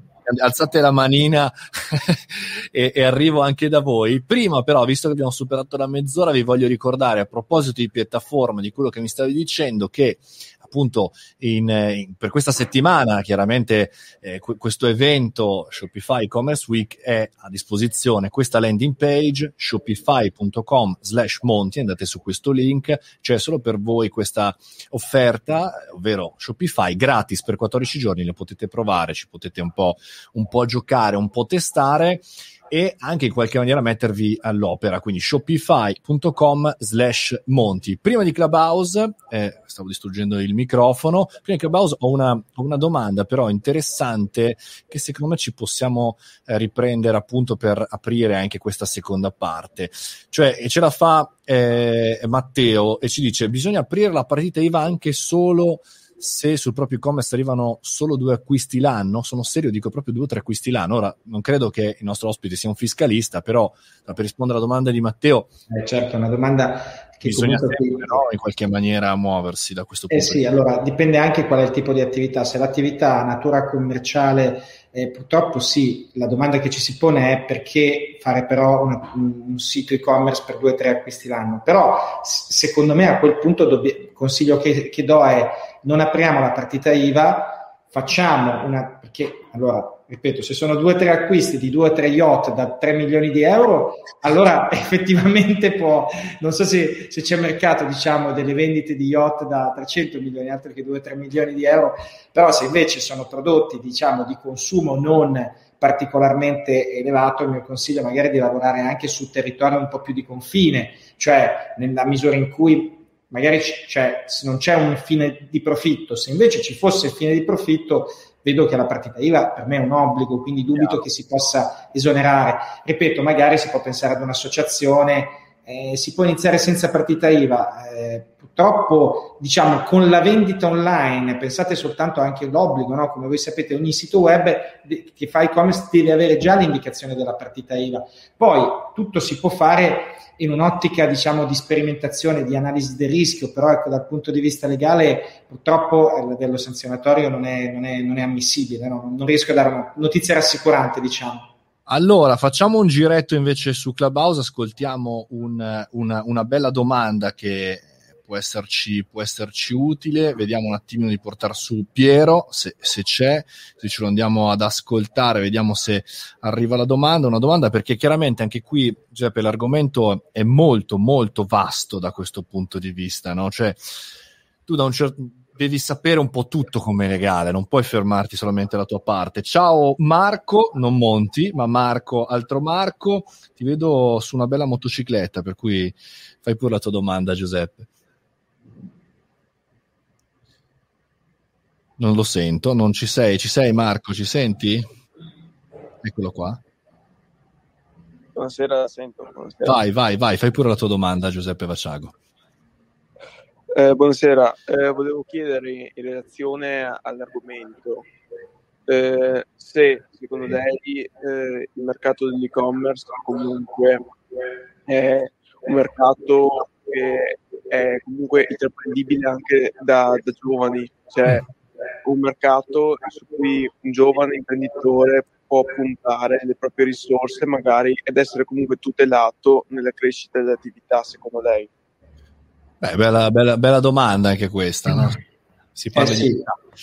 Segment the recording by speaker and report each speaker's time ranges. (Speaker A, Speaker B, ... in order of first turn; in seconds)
Speaker A: 0.2-65.5, 67.2-70.5, 120.8-121.0, 151.9-173.8, 174.7-187.9, 192.0-194.9, 196.0-196.6, 199.7-202.2, 232.8-235.2, 235.8-236.4
Speaker B: 65.7-68.2, 70.1-151.5, 235.9-236.5
Speaker C: 198.3-199.8, 203.7-208.1, 208.9-214.1, 214.9-221.5, 222.0-231.7